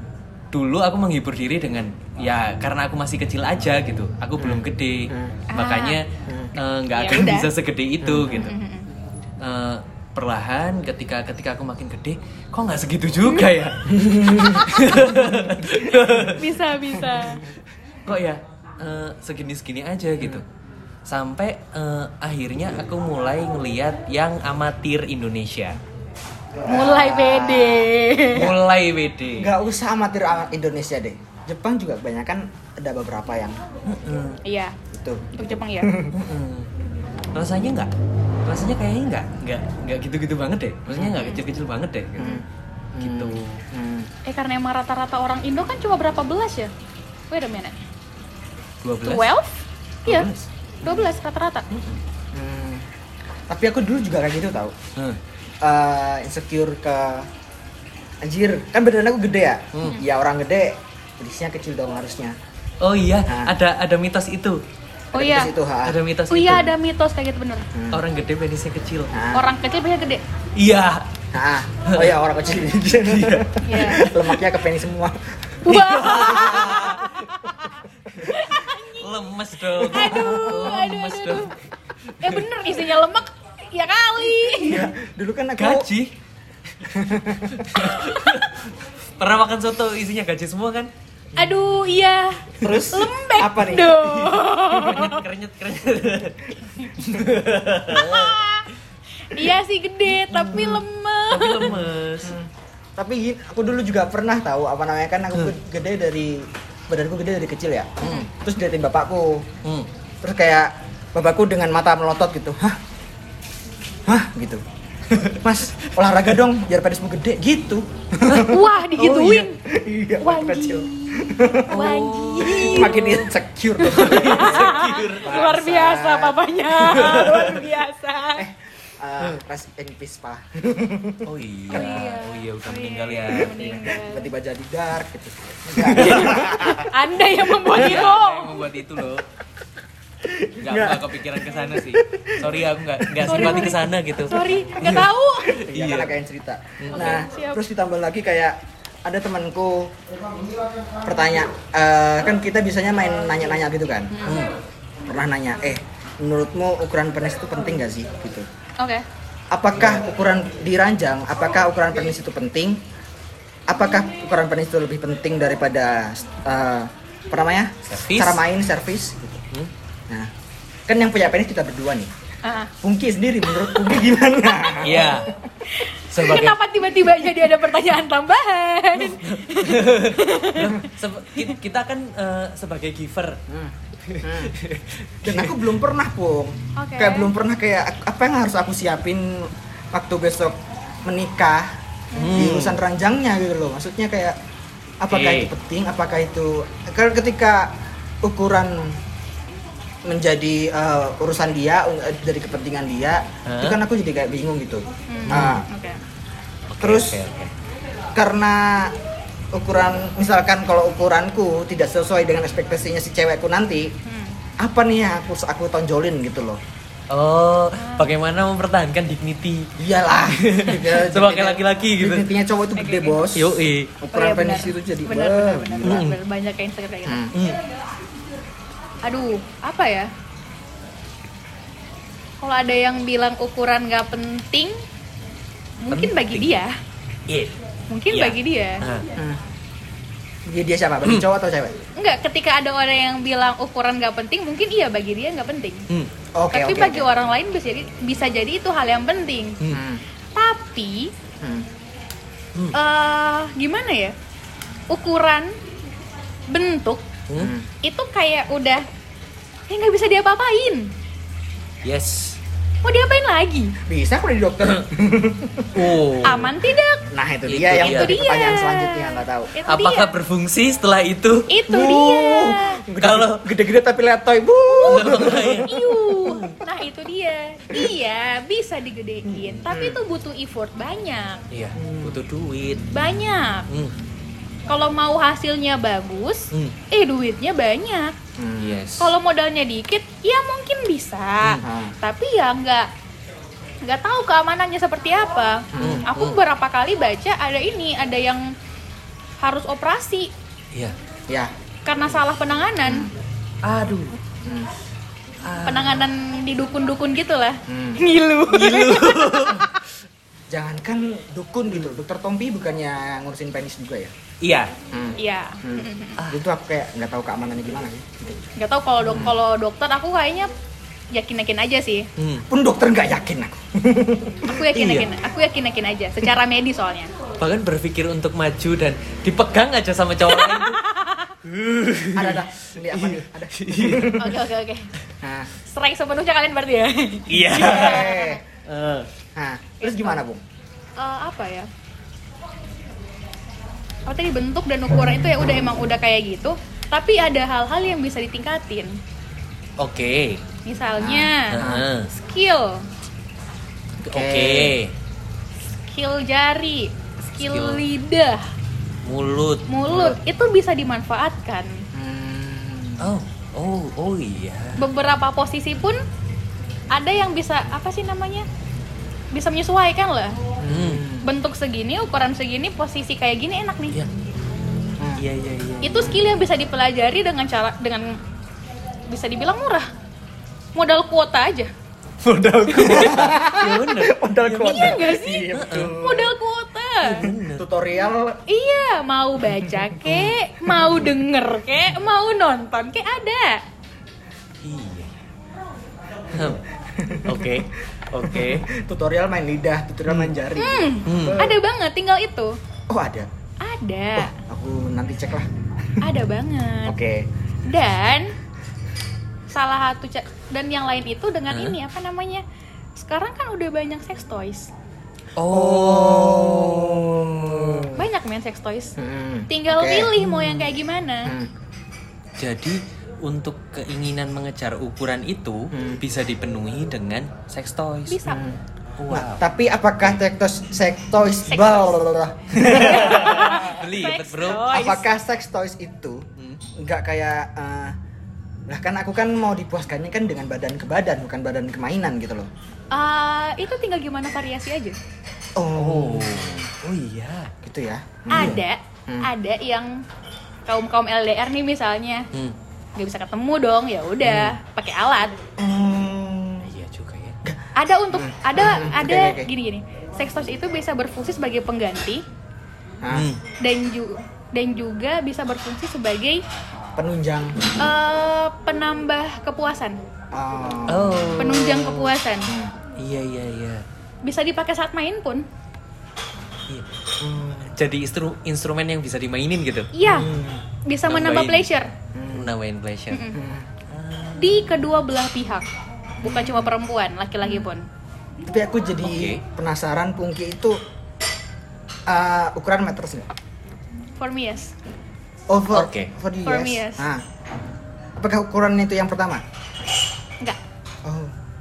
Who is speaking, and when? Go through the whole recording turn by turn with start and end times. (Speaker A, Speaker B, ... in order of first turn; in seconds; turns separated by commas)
Speaker A: 0.5-8.5, Speaker B: 4.4-5.4, Speaker C: 5.5-6.0, Speaker B: 6.3-6.5, Speaker C: 6.9-7.5, Speaker B: 8.0-8.4, Speaker C: 8.3-8.9, Speaker A: 9.4-16.5, Speaker B: 13.9-16.1, Speaker C: 14.5-14.9, Speaker C: 16.3-17.4, Speaker A: 18.1-20.4, Speaker A: 21.1-25.8, Speaker B: 26.6-28.6, Speaker C: 26.6-28.5, Speaker A: 28.3-29.5, Speaker B: 29.4-33.6, Speaker A: 33.9-34.4, Speaker C: 34.4-34.8, Speaker B: 34.9-36.2, Speaker C: 35.4-35.9, Speaker A: 36.1-36.7, Speaker A: 37.3-37.9, Speaker A: 38.5-42.4, Speaker B: 40.9-41.2, Speaker C: 41.1-41.4, Speaker B: 42.2-44.1, Speaker A: 43.0-43.6, Speaker C: 44.2-46.7, Speaker C: 47.3-47.8, Speaker A: 48.8-49.3, Speaker C: 49.0-50.3, Speaker A: 50.1-50.5, Speaker B: 50.8-51.1, Speaker C: 50.8-51.7, Speaker A: 51.7-52.0, Speaker B: 52.3-52.9, Speaker B: 53.5-54.8, Speaker B: 55.6-57.3, Speaker B: 58.2-62.4, Speaker A: 59.7-60.0, Speaker A: 62.8-64.6, Speaker B: 63.2-63.5, Speaker C: 65.1-65.5, Speaker B: 65.1-66.0, Speaker A: 65.8-66.7, Speaker C: 66.3-67.7, Speaker B: 67.7-68.0, Speaker A: 67.9-69.1, Speaker B: 69.1-69.4, Speaker C: 69.3-70.2, Speaker A: 70.5-71.1, Speaker B: 71.3-75.6, Speaker A: 71.8-72.2, Speaker A: 72.9-74.4, Speaker C: 73.6-74.0, Speaker C: 75.6-77.2, Speaker A: 75.6-77.7, Speaker B: 76.5-76.8, Speaker C: 78.2-79.0, Speaker A: 78.2-82.7, Speaker C: 79.7-81.6, Speaker B: 79.9-80.7, Speaker C: 82.2-84.8, Speaker B: 84.6-85.9, Speaker A: 84.6-84.9, Speaker A: 85.6-86.1, Speaker B: 86.8-87.9, Speaker A: 87.5-90.9, Speaker C: 87.9-88.3, Speaker C: 91.3-95.2, Speaker B: 92.6-94.0, Speaker A: 94.0-98.4, Speaker C: 97.9-101.8, Speaker A: 100.1-102.4, Speaker B: 102.2-109.5, Speaker A: 108.0-108.3, Speaker B: 110.2-112.8, Speaker B: 114.1-114.6, Speaker A: 115.1-115.9, Speaker B: 115.4-118.6, Speaker A: 118.3-119.5, Speaker C: 118.3-119.6, Speaker B: 119.5-121.8, Speaker C: 120.2-123.2, Speaker A: 121.7-123.3, Speaker B: 122.4-124.7, Speaker A: 123.8-125.5, Speaker C: 123.9-128.5, Speaker B: 125.2-126.5, Speaker A: 126.8-127.5, Speaker B: 128.3-132.1, Speaker A: 131.2-133.5, Speaker C: 131.7-134.3, Speaker B: 133.4-136.9, Speaker A: 135.8-136.4, Speaker C: 135.8-138.7, Speaker A: 137.6-139.2, Speaker B: 140.2-143.8, Speaker A: 140.6-145.0, Speaker C: 143.2-145.6, Speaker B: 144.8-150.0, Speaker A: 145.6-146.1, Speaker A: 146.8-147.2, Speaker C: 146.9-147.6, Speaker B: 151.0-154.3, Speaker C: 154.1-154.5, Speaker A: 154.2-154.5, Speaker B: 155.1-158.5, Speaker C: 158.8-159.0, Speaker B: 159.5-162.8, Speaker B: 163.7-169.4, Speaker A: 167.9-168.4, Speaker B: 170.9-172.1, Speaker C: 172.4-172.7, Speaker B: 172.8-175.3, Speaker A: 174.8-175.3, Speaker C: 175.6-180.9, Speaker A: 176.0-176.6, Speaker A: 179.0-183.4, Speaker B: 183.5-184.6, Speaker A: 184.0-185.6, Speaker B: 185.2-191.8, Speaker C: 186.8-187.3, Speaker C: 192.1-192.5, Speaker A: 192.2-192.8, Speaker B: 192.3-194.4, Speaker B: 195.0-199.0, Speaker A: 195.1-195.5, Speaker B: 200.0-205.7, Speaker A: 203.4-203.8, Speaker C: 205.1-206.0, Speaker A: 205.3-205.6, Speaker A: 206.7-207.5, Speaker B: 206.8-207.2, Speaker B: 208.1-208.9, Speaker B: 209.5-213.9, Speaker C: 214.0-214.4, Speaker B: 214.6-216.6, Speaker A: 217.1-219.7, Speaker C: 217.8-218.1, Speaker B: 219.8-226.1, Speaker A: 220.2-222.3, Speaker C: 222.8-223.2, Speaker A: 223.3-223.9, Speaker C: 224.1-227.3, Speaker A: 225.8-226.2, Speaker B: 227.1-227.3, Speaker A: 227.3-227.6, Speaker C: 229.0-230.1, Speaker C: 232.4-234.8, Speaker C: 235.8-236.7, Speaker A: 235.9-236.6, Speaker A: 237.3-237.5, Speaker C: 237.9-238.8, Speaker A: 238.1-239.0, Speaker B: 240.4-241.8, Speaker C: 242.0-245.8, Speaker B: 246.3-247.1, Speaker C: 246.5-249.6, Speaker B: 249.7-250.0, Speaker C: 250.3-251.1, Speaker B: 251.4-251.7, Speaker C: 252.7-254.1, Speaker C: 254.9-255.5, Speaker C: 256.5-257.1, Speaker A: 257.3-257.5, Speaker B: 257.4-257.7, Speaker C: 257.8-258.9, Speaker C: 259.7-260.9, Speaker A: 261.8-262.4, Speaker C: 262.8-263.7, Speaker B: 263.9-266.0, Speaker A: 265.7-266.5, Speaker C: 266.2-267.1, Speaker B: 267.1-269.6, Speaker A: 267.5-268.2, Speaker C: 267.8-270.1, Speaker A: 269.7-271.5, Speaker C: 271.5-272.8, Speaker B: 271.7-275.8, Speaker A: 273.0-273.4, Speaker C: 274.8-281.4, Speaker A: 274.8-276.6, Speaker A: 279.3-279.6, Speaker B: 279.7-280.0, Speaker A: 281.5-282.9, Speaker B: 281.8-282.2, Speaker C: 282.9-283.7, Speaker A: 283.7-283.9, Speaker C: 284.7-288.1, Speaker B: 288.4-288.8, Speaker A: 288.6-289.1, Speaker C: 289.0-292.9, Speaker B: 291.6-291.9, Speaker C: 293.8-298.5, Speaker B: 295.7-296.1, Speaker A: 295.8-296.4, Speaker C: 299.4-300.3, Speaker C: 301.8-303.1, Speaker B: 302.8-303.1, Speaker A: 303.6-304.2, Speaker B: 304.4-304.7, Speaker A: 305.4-306.1, Speaker C: 305.6-309.8, Speaker B: 307.7-308.0, Speaker A: 308.5-309.7, Speaker B: 310.5-314.1, Speaker A: 314.4-314.7, Speaker B: 314.9-318.4, Speaker C: 315.2-316.2, Speaker A: 316.2-316.4, Speaker C: 318.6-320.5, Speaker C: 321.1-322.1, Speaker A: 322.2-322.5, Speaker B: 322.5-324.6, Speaker C: 324.4-327.1, Speaker A: 324.7-325.1, Speaker A: 327.4-330.8, Speaker C: 330.3-331.4, Speaker A: 331.4-334.2, Speaker B: 332.1-334.3, Speaker C: 334.2-334.9, Speaker B: 335.2-335.5, Speaker C: 335.6-338.4, Speaker A: 337.3-338.1, Speaker B: 337.6-338.4, Speaker A: 338.6-339.1, Speaker B: 339.3-340.4, Speaker C: 339.8-340.2, Speaker C: 341.0-341.7, Speaker C: 344.1-349.0, Speaker A: 349.8-350.4, Speaker C: 350.6-352.9, Speaker B: 351.0-351.9, Speaker A: 351.5-352.1, Speaker A: 354.0-354.9, Speaker B: 354.1-354.8, Speaker C: 355.9-358.5, Speaker A: 357.4-357.8, Speaker A: 359.0-359.7, Speaker C: 359.7-361.8, Speaker B: 359.9-360.2, Speaker B: 361.9-363.2, Speaker A: 363.0-364.8, Speaker C: 364.8-366.0, Speaker C: 366.9-368.5, Speaker C: 369.3-370.4, Speaker B: 370.6-371.3, Speaker A: 370.6-371.1, Speaker C: 371.2-373.9, Speaker B: 375.0-375.2, Speaker A: 375.2-376.2, Speaker C: 375.8-378.2, Speaker C: 379.1-379.9, Speaker C: 380.7-381.7, Speaker A: 382.2-385.9, Speaker C: 382.7-383.1, Speaker B: 382.8-386.3, Speaker C: 384.6-387.3, Speaker A: 387.0-387.6, Speaker B: 387.2-388.4, Speaker C: 388.5-393.6, Speaker A: 390.0-390.4, Speaker A: 394.6-395.1, Speaker A: 396.3-396.6, Speaker B: 396.9-397.6, Speaker A: 397.2-398.7, Speaker B: 398.2-401.6, Speaker A: 400.1-400.3, Speaker C: 400.6-402.6, Speaker A: 401.1-401.4, Speaker B: 402.9-403.3, Speaker C: 403.6-404.4, Speaker B: 404.2-405.5, Speaker C: 406.0-406.9, Speaker B: 406.8-407.3, Speaker C: 407.6-408.3, Speaker C: 409.5-412.4, Speaker A: 411.5-411.8, Speaker C: 412.9-414.7, Speaker A: 415.4-417.9, Speaker B: 415.5-418.1, Speaker C: 417.9-418.9, Speaker B: 419.0-420.7, Speaker C: 419.5-421.3, Speaker B: 421.2-421.5, Speaker A: 422.4-428.2, Speaker B: 425.7-426.0, Speaker C: 428.1-428.4, Speaker B: 428.2-433.6, Speaker A: 429.0-429.4, Speaker C: 431.5-432.0, Speaker A: 432.5-434.7, Speaker C: 432.6-435.1, Speaker B: 434.6-437.9, Speaker B: 438.7-442.5, Speaker C: 442.9-445.0, Speaker B: 445.6-446.7, Speaker A: 445.7-447.5, Speaker B: 447.6-449.3, Speaker C: 448.3-450.0, Speaker C: 450.6-452.3, Speaker C: 453.0-455.3, Speaker B: 454.2-454.5, Speaker B: 455.6-456.7, Speaker A: 456.6-457.4, Speaker B: 457.4-459.5, Speaker C: 457.8-462.2, Speaker B: 463.0-463.3, Speaker A: 463.1-463.4, Speaker C: 463.6-466.4, Speaker B: 466.9-467.7, Speaker C: 467.8-470.0, Speaker B: 470.3-471.4, Speaker A: 470.9-472.1, Speaker C: 471.4-472.5, Speaker B: 472.5-472.7, Speaker A: 473.0-473.8, Speaker C: 474.2-475.4, Speaker A: 476.7-477.0, Speaker B: 477.2-477.8, Speaker A: 477.7-479.9, Speaker C: 479.9-480.3, Speaker B: 480.0-480.6, Speaker C: 480.9-481.9, Speaker A: 481.1-481.7, Speaker B: 482.1-482.5, Speaker A: 482.3-483.3, Speaker C: 483.1-483.4, Speaker B: 483.3-483.7, Speaker A: 483.9-484.6, Speaker C: 484.4-485.7, Speaker B: 486.2-486.7, Speaker C: 486.2-487.9, Speaker B: 488.4-490.8, Speaker A: 489.0-489.4, Speaker B: 492.1-493.3, Speaker C: 494.2-494.7, Speaker B: 495.5-497.2, Speaker A: 495.7-496.1, Speaker C: 496.4-497.1, Speaker B: 498.2-499.4, Speaker B: 501.0-501.3